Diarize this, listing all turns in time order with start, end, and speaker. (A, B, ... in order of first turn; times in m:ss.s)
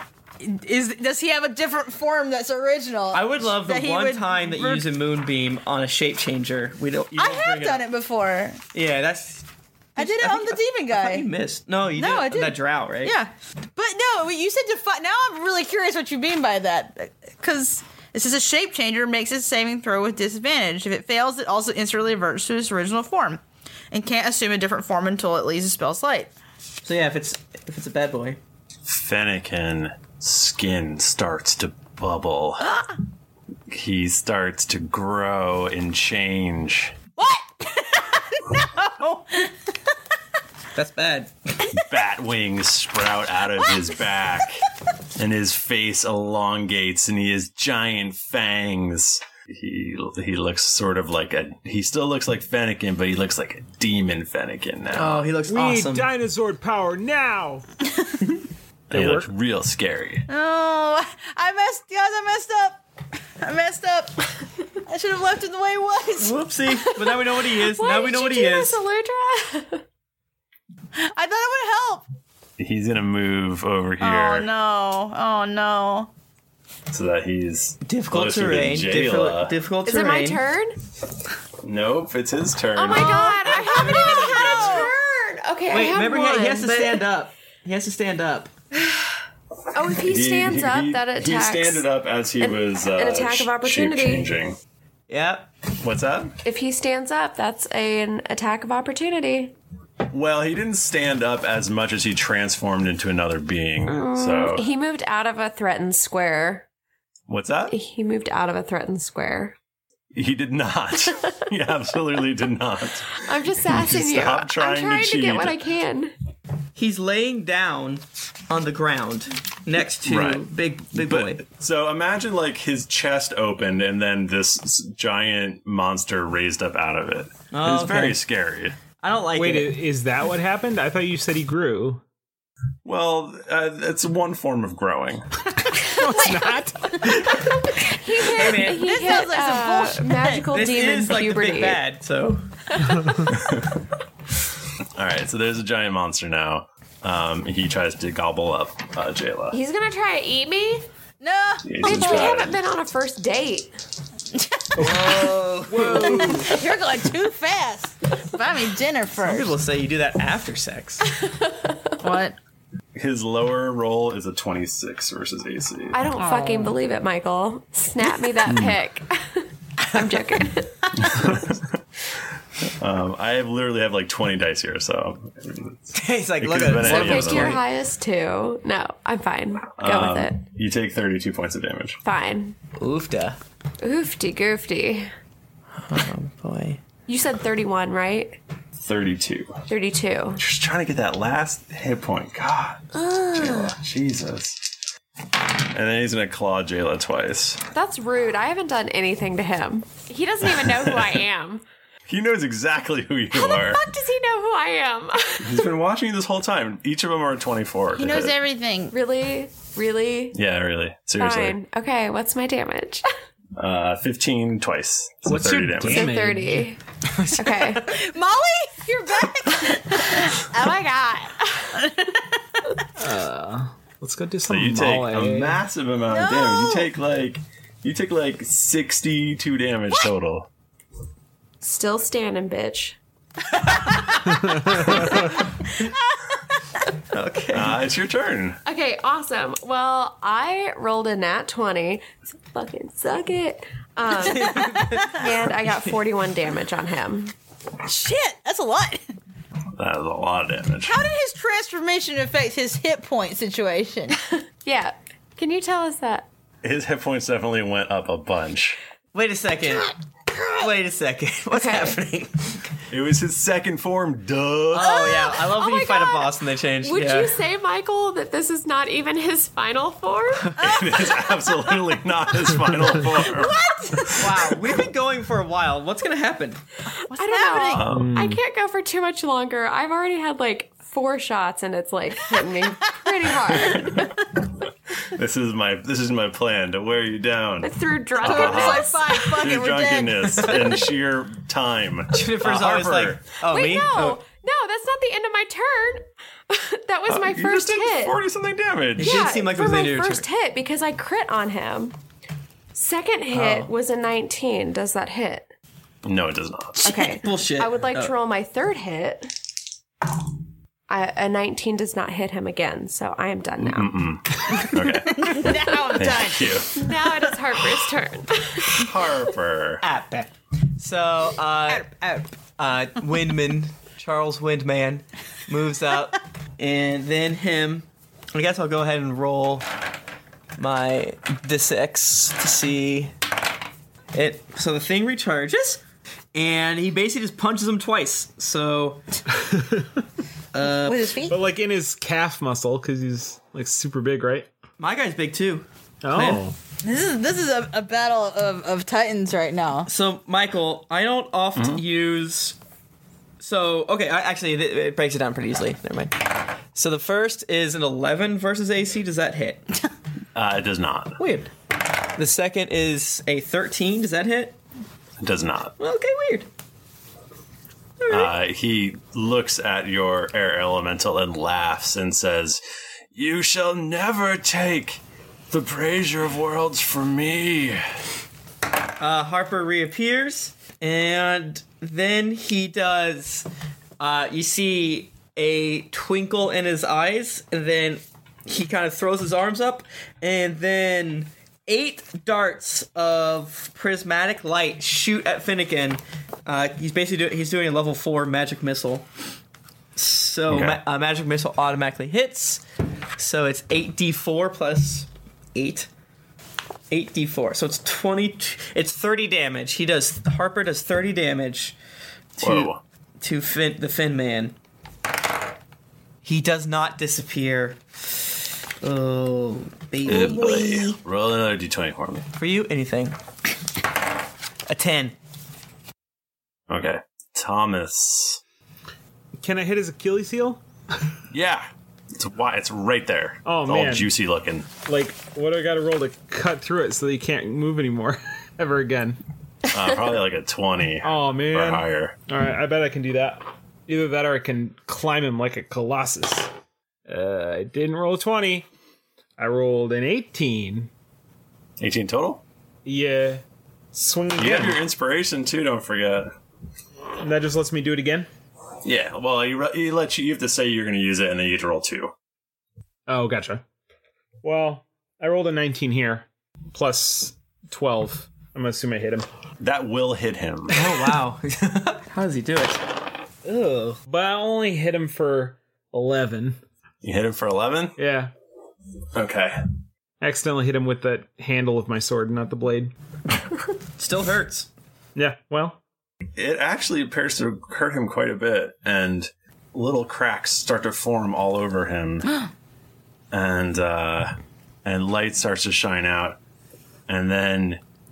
0:00.4-0:04.8 A
0:03.1-0:07.8 B
0:07.1-0:08.6 A
0:08.7-0:13.1 B
0:10.0-0:11.2 A
0:12.0-0:23.4 A
0:23.9-0:26.3 A
0:26.8-0:28.4 B
0:28.9-0:32.8 C
0:33.7-0:36.9 C
0:37.2-0:39.7 A
0:40.7-0:41.3 B
0:41.7-0:44.6 C
0:45.2-0:55.3 C
0:54.9-0:56.1 B
0:55.4-0:57.6 D
0:58.9-0:59.3 D
0:58.9-1:00.2 C
1:00.3-1:02.8 A
1:03.4-1:04.2 A
1:04.8-1:06.4 A
1:06.2-1:08.8 B
1:07.6-1:09.8 E
1:11.0-1:12.0 A
1:12.6-1:14.5 C
1:14.0-1:16.1 A
1:16.9-1:19.5 C
1:17.8-1:20.4 B
1:19.8-1:20.8 E
1:21.6-1:23.3 C
1:22.8-1:27.0 E
1:22.9-1:25.0 A
1:25.7-1:28.5 B
1:29.7-1:31.8 E
1:30.0-1:34.6 C
1:32.4-1:34.3 E
1:35.1-1:35.5 B
1:35.8-1:36.3 C
1:36.4-1:39.5 E
1:40.1-1:44.6 C
1:43.9-1:46.6 E
1:47.3-1:47.8 C
1:47.7-1:49.5 E
1:50.1-1:55.6 C
1:53.2-1:56.1 E
1:56.8-2:01.4 B
2:00.0-2:08.8 C
2:07.5-2:08.2 B
2:09.0-2:09.7 B
2:09.3-2:12.0 D
2:12.8-2:15.2 C
2:15.8-2:17.4 D
2:16.0-2:16.4 E
2:17.4-2:21.8 E
2:18.3-2:18.9 B
2:18.5-2:20.5 A
2:20.5-2:22.4 B
2:23.3-2:23.8 C
2:25.0-2:29.6 C
2:29.5-2:30.8 E
2:31.2-2:32.4 A
2:31.6-2:32.6 C
2:31.8-2:33.7 E
2:34.4-2:35.0 A
2:34.8-2:36.4 B
2:34.8-2:36.4 D
2:35.8-2:39.5 A
2:39.2-2:41.0 B
2:41.2-2:41.8 E
2:42.0-2:42.4 A
2:43.0-2:46.0 C
2:45.9-2:51.4 E
2:46.2-2:46.8 A
2:48.5-2:48.7 C
2:51.0-2:51.8 C
2:52.8-2:57.6 C
2:56.0-2:57.6 B
2:56.8-3:00.4 E
2:59.8-3:02.0 C
3:02.0-3:02.6 E
3:02.8-3:03.4 B
3:03.8-3:05.1 E
3:05.8-3:06.8 B
3:07.1-3:08.4 E
3:08.8-3:09.6 C
3:09.7-3:10.4 E
3:10.4-3:14.6 C
3:15.6-3:17.6 C
3:17.7-3:21.6 E
3:20.5-3:21.0 C
3:22.1-3:23.8 C
3:23.3-3:25.7 E
3:25.4-3:28.3 C
3:28.0-3:28.9 A
3:28.9-3:30.4 E
3:30.3-3:31.6 C
3:31.2-3:33.0 E
3:33.6-3:36.1 C
3:35.2-3:36.7 D
3:35.8-3:36.8 E
3:37.1-3:37.8 B
3:37.3-3:37.9 E
3:37.8-3:42.6 A
3:40.5-3:40.8 E
3:41.4-3:41.7 E
3:43.0-3:45.6 D
3:44.5-3:50.5 C
3:46.1-3:46.9 A
3:51.6-3:53.0 E
3:54.5-3:55.2 D
3:57.1-3:57.8 B
3:57.5-3:58.6 C
3:58.6-4:07.3 E
4:04.3-4:05.2 B
4:07.8-4:09.2 A
4:09.8-4:11.0 C
4:10.8-4:14.2 A
4:14.6-4:16.3 E
4:16.6-4:18.8 C
4:19.1-4:19.9 B
4:20.6-4:22.6 B
4:21.5-4:22.0 E
4:22.9-4:25.0 C
4:24.7-4:27.3 B
4:24.7-4:26.3 E
4:26.8-4:30.6 E
4:30.6-4:31.3 A
4:30.6-4:34.3 C
4:33.2-4:34.2 A
4:34.2-4:36.6 B
4:37.1-4:37.8 A
4:37.2-4:44.2 E
4:37.7-4:38.2 C
4:37.9-4:38.4 D
4:45.0-4:53.2 C
4:47.6-4:49.3 E
4:48.2-4:50.8 A
4:52.1-4:54.2 B
4:53.4-4:58.2 E
4:57.1-4:59.2 C
4:59.0-5:00.2 B
4:59.0-5:02.0 E
5:02.7-5:05.5 E
5:03.3-5:03.7 B
5:06.0-5:07.0 C
5:06.8-5:09.3 E
5:06.9-5:08.1 B
5:10.9-5:14.0 E
5:13.6-5:16.9 C
5:15.1-5:16.6 A
5:16.7-5:18.9 E
5:18.6-5:19.8 C
5:19.8-5:21.9 B
5:21.7-5:22.3 A
5:22.6-5:29.6 B
5:30.6-5:33.1 B
5:34.1-5:35.8 B
5:36.3-5:39.0 B
5:39.4-5:39.8 D
5:40.5-5:41.1 B
5:40.8-5:41.4 A
5:41.3-5:44.5 D
5:44.8-5:46.4 B
5:46.0-5:46.6 D
5:46.8-5:49.9 A
5:49.9-5:52.5 B
5:51.6-5:51.8 C
5:53.4-5:56.2 B
5:56.7-5:59.6 B
6:00.3-6:01.2 C
6:01.2-6:01.5 B
6:02.2-6:04.6 B
6:05.2-6:05.7 C
6:05.8-6:06.5 B
6:08.1-6:12.6 C
6:13.1-6:17.8 C
6:19.0-6:23.4 B
6:24.0-6:39.0 B
6:40.0-6:42.6 B
6:40.5-6:40.8 C
6:43.2-6:45.9 B
6:46.9-6:51.7 B
6:52.4-6:52.7 B
6:52.4-6:52.8 C
6:53.2-6:54.5 B
6:56.2-6:57.8 B
6:58.8-7:00.9 B
7:00.0-7:02.3 C
7:00.1-7:00.7 A
7:02.4-7:03.2 B
7:04.7-7:05.1 B
7:06.7-7:08.4 C
7:09.4-7:10.6 D
7:11.3-7:14.7 C
7:13.4-7:14.1 D
7:14.7-7:19.2 D
7:19.7-7:22.1 C
7:21.0-7:26.5 D
7:27.1-7:28.7 D
7:29.4-7:30.9 D
7:31.8-7:32.4 C
7:32.8-7:33.4 D
7:33.9-7:34.8 D
7:34.4-7:36.3 C
7:37.2-7:38.3 D
7:38.8-7:42.1 C
7:43.1-7:43.6 D
7:44.4-7:49.2 D
7:49.6-7:50.8 C
7:50.7-7:52.8 B
7:53.4-7:56.6 D
7:57.0-7:58.0 C
7:58.0-7:58.3 D
7:59.1-7:59.6 C
8:00.2-8:02.9 D
8:04.0-8:04.7 B
8:05.1-8:05.8 D
8:06.4-8:12.3 C
8:13.3-8:14.3 C
8:14.8-8:16.4 C
8:17.1-8:17.8 C